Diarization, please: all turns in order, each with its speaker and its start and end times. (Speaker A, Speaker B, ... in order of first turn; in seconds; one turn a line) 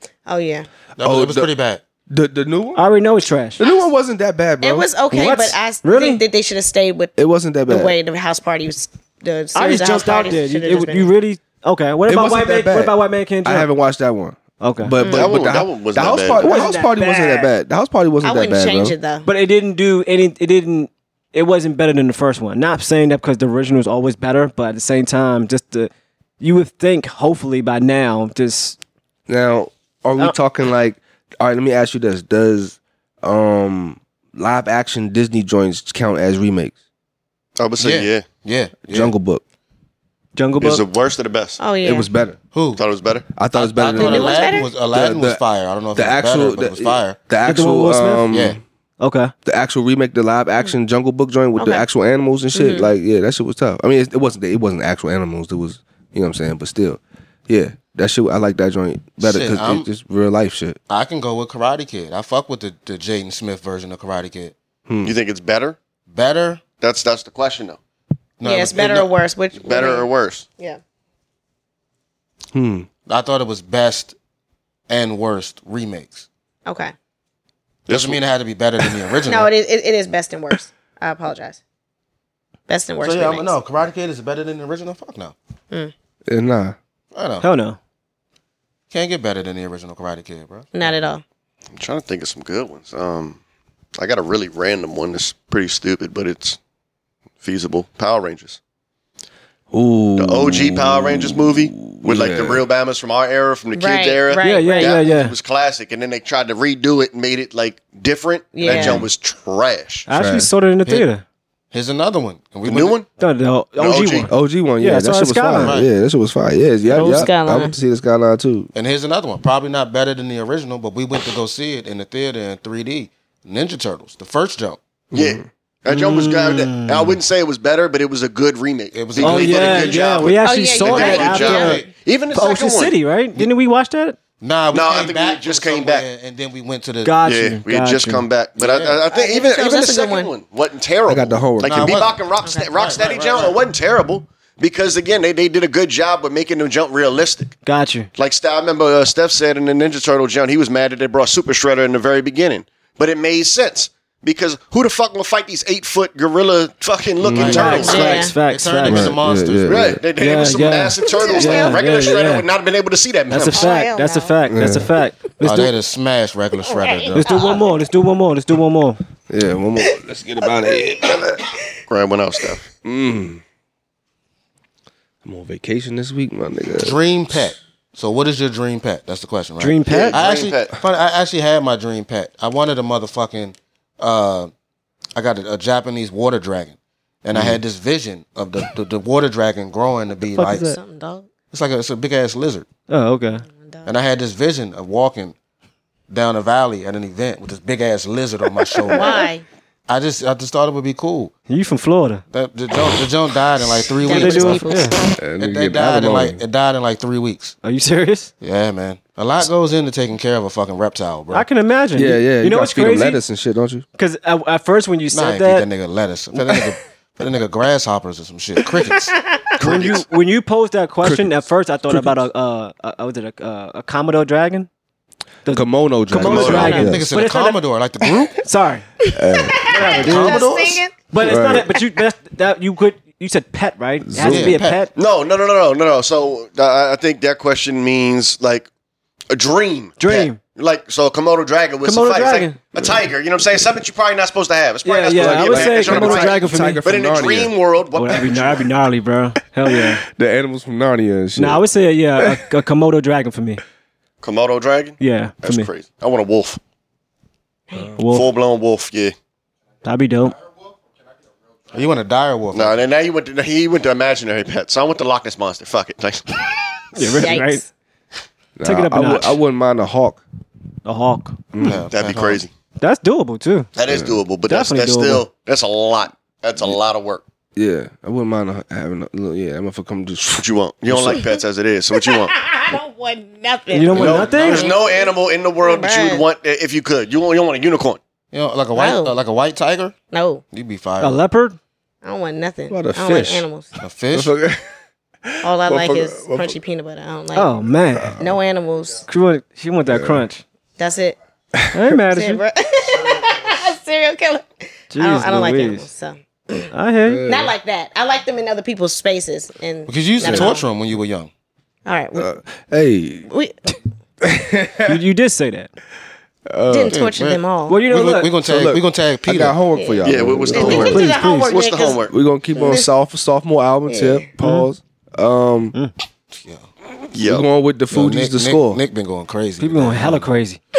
Speaker A: 0.2-0.7
Speaker B: 1.0-1.8
Speaker C: 1.0-1.5
Speaker C: 2.1-2.8
Speaker D: 2.8-3.6
Speaker A: 3.6-3.9
Speaker C: 3.6-4.9
Speaker A: 4.6-7.2
Speaker D: 5.1-6.2
Speaker C: 7.2-8.0
Speaker A: 7.7-11.1
Speaker D: 9.5-13.7
Speaker C: 12.1-19.0
Speaker D: 14.6-14.9
Speaker A: 15.0-15.4
Speaker E: 15.1-16.4
Speaker D: 16.4-17.4
Speaker A: 18.2-19.3
Speaker D: 19.2-25.9
Speaker D: 26.4-28.8
Speaker C: 29.3-36.7
Speaker E: 37.6-38.2
Speaker B: 37.8-39.1
Speaker C: 38.9-39.4
Speaker D: 40.4-40.8
Speaker E: 40.6-41.6
Speaker A: 41.6-42.1
Speaker C: 41.8-42.4
Speaker B: 42.5-42.8
Speaker E: 42.8-43.3
Speaker C: 43.4-45.4
Speaker B: 43.5-47.2
Speaker A: 43.9-44.7
Speaker C: 45.9-48.6
Speaker D: 47.4-48.3
Speaker B: 48.3-48.6
Speaker D: 49.0-49.3
Speaker C: 49.4-60.8
Speaker A: 51.6-51.8
Speaker A: 52.5-52.9
Speaker B: 59.2-59.9
Speaker B: 60.9-64.5
Speaker C: 64.9-65.1
Speaker E: 65.0-65.8
Speaker B: 66.1-66.6
Speaker E: 66.8-67.8
Speaker B: 68.4-69.1
Speaker A: 68.4-70.8
Speaker E: 69.6-70.5
Speaker C: 72.5-72.9
Speaker B: 73.1-74.2
Speaker B: 74.9-76.2
Speaker A: 76.7-76.9
Speaker E: 77.9-78.2
Speaker B: 77.9-79.5
Speaker A: 79.2-81.6
Speaker A: 82.7-83.6
Speaker B: 83.0-85.3
Speaker C: 86.3-86.8
Speaker B: 87.1-87.5
Speaker D: 87.4-87.8
Speaker B: 88.9-90.7
Speaker A: 90.7-91.2
Speaker E: 91.8-93.4
Speaker E: 94.0-96.6
Speaker E: 97.4-98.6
Speaker C: 99.7-102.6
Speaker E: 100.2-110.1
Speaker A: 103.7-105.0
Speaker D: 104.4-105.3
Speaker A: 108.5-109.0
Speaker D: 108.7-108.9
Speaker C: 108.7-109.0
Speaker D: 110.1-111.2
Speaker C: 110.1-110.5
Speaker B: 111.7-113.0
Speaker E: 112.6-113.1
Speaker D: 113.2-115.7
Speaker E: 113.8-114.3
Speaker C: 114.3-118.7
Speaker B: 115.6-115.9
Speaker D: 116.9-117.3
Speaker A: 116.9-117.7
Speaker B: 118.7-124.8
Speaker C: 125.1-125.5
Speaker E: 125.1-132.9
Speaker D: 125.9-127.2
Speaker B: 128.9-131.9
Speaker D: 129.2-134.2
Speaker A: 130.4-131.8
Speaker B: 134.4-137.2
Speaker E: 134.7-136.1
Speaker D: 137.0-138.2
Speaker E: 137.2-147.6
Speaker B: 138.6-139.0
Speaker A: 139.1-140.3
Speaker C: 141.1-142.1
Speaker B: 141.6-143.6
Speaker A: 142.4-143.5
Speaker D: 147.6-148.1
Speaker E: 148.2-158.1
Speaker C: 157.2-157.7
Speaker B: 157.3-159.9
Speaker D: 157.5-159.2
Speaker A: 157.6-158.4
Speaker C: 158.8-160.0
Speaker E: 159.7-163.7
Speaker D: 160.2-162.4
Speaker A: 161.1-161.8
Speaker D: 163.3-165.7
Speaker A: 163.5-164.3
Speaker C: 164.5-164.8
Speaker B: 165.4-167.5
Speaker A: 166.7-167.6
Speaker D: 167.2-169.0
Speaker C: 169.3-171.4
Speaker E: 171.9-172.7
Speaker C: 172.8-173.4
Speaker C: 175.2-177.0
Speaker B: 176.8-184.5
Speaker D: 179.6-180.2
Speaker E: 179.9-180.7
Speaker B: 185.1-190.7
Speaker C: 187.3-187.6
Speaker D: 190.3-190.8
Speaker A: 190.6-191.3
Speaker B: 191.5-192.7
Speaker D: 192.9-193.4
Speaker B: 193.8-195.3
Speaker B: 196.1-199.3
Speaker A: 198.9-199.4
Speaker B: 199.9-201.3
Speaker D: 201.5-202.2
Speaker B: 202.3-204.7
Speaker A: 204.0-205.2
Speaker D: 204.0-205.0
Speaker C: 205.2-206.4
Speaker B: 205.4-207.6
Speaker D: 207.6-208.3
Speaker B: 208.4-211.4
Speaker D: 211.3-213.2
Speaker C: 211.9-213.8
Speaker D: 214.0-215.7
Speaker B: 215.1-219.2
Speaker A: 219.1-219.5
Speaker E: 219.6-220.1
Speaker D: 219.6-224.7
Speaker C: 221.0-222.3
Speaker D: 225.4-227.6
Speaker C: 225.5-227.1
Speaker E: 226.2-226.8
Speaker B: 226.3-228.4
Speaker A: 226.4-226.8
Speaker D: 228.4-228.9
Speaker C: 229.1-229.6
Speaker A: 229.3-231.2
Speaker D: 229.7-230.5
Speaker B: 229.9-230.8
Speaker D: 231.1-234.9
Speaker C: 231.2-231.7
Speaker C: 234.0-234.5
Speaker B: 234.2-234.8
Speaker E: 234.9-238.7
Speaker E: 239.3-248.7
Speaker D: 240.0-240.4
Speaker D: 241.8-242.6
Speaker D: 244.8-246.8
Speaker C: 245.1-247.5
Speaker D: 247.9-250.0
Speaker C: 249.7-251.6
Speaker D: 251.3-253.6
Speaker C: 252.2-252.4
Speaker E: 254.2-256.6
Speaker D: 255.0-255.7
Speaker D: 258.0-258.2
Speaker E: 258.0-259.1
Speaker D: 259.8-260.4
Speaker B: 261.7-262.8
Speaker E: 262.5-266.4
Speaker D: 266.9-267.6
Speaker A: 267.1-267.7
Speaker C: 268.6-270.2
Speaker D: 268.6-269.4
Speaker D: 270.8-271.8
Speaker C: 271.5-271.8
Speaker B: 271.6-272.4
Speaker E: 271.9-272.5
Speaker D: 272.8-273.7
Speaker E: 273.8-277.2
Speaker C: 273.9-274.2
Speaker D: 274.5-275.2
Speaker C: 277.6-281.2
Speaker E: 280.3-282.3
Speaker A: 282.0-286.2
Speaker D: 283.7-284.7
Speaker E: 283.9-288.0
Speaker B: 283.9-284.7
Speaker B: 288.3-290.0
Speaker A: 288.7-289.1
Speaker A: 290.1-290.4
Speaker B: 290.5-291.2
Speaker D: 291.0-291.6
Speaker A: 292.0-293.7
Speaker C: 292.7-293.4
Speaker B: 293.8-294.3
Speaker C: 294.1-294.6
Speaker C: 295.2-296.6
Speaker A: 295.4-297.5
Speaker D: 297.3-298.1
Speaker C: 297.9-298.4
Speaker A: 298.2-299.0
Speaker D: 299.1-300.4
Speaker C: 299.9-300.2
Speaker A: 300.8-301.2
Speaker D: 301.7-302.4
Speaker A: 302.1-306.7
Speaker D: 304.9-305.9
Speaker D: 306.7-307.4
Speaker C: 307.1-307.5
Speaker A: 307.2-310.6
Speaker B: 309.9-311.3
Speaker C: 310.2-310.5
Speaker A: 311.9-312.3
Speaker C: 312.1-313.3
Speaker A: 313.3-313.8
Speaker C: 314.2-315.0
Speaker D: 314.9-315.7
Speaker C: 316.5-317.0
Speaker A: 316.7-317.8
Speaker B: 316.9-319.6
Speaker D: 317.7-318.3
Speaker C: 318.4-321.0
Speaker A: 319.7-322.0
Speaker E: 320.0-322.1
Speaker D: 320.6-321.6
Speaker C: 322.1-325.7
Speaker A: 322.5-322.9
Speaker A: 323.9-324.3
Speaker D: 324.4-324.7
Speaker B: 326.3-326.7
Speaker E: 327.1-327.4
Speaker C: 327.2-328.8
Speaker B: 327.9-330.3
Speaker D: 329.6-330.6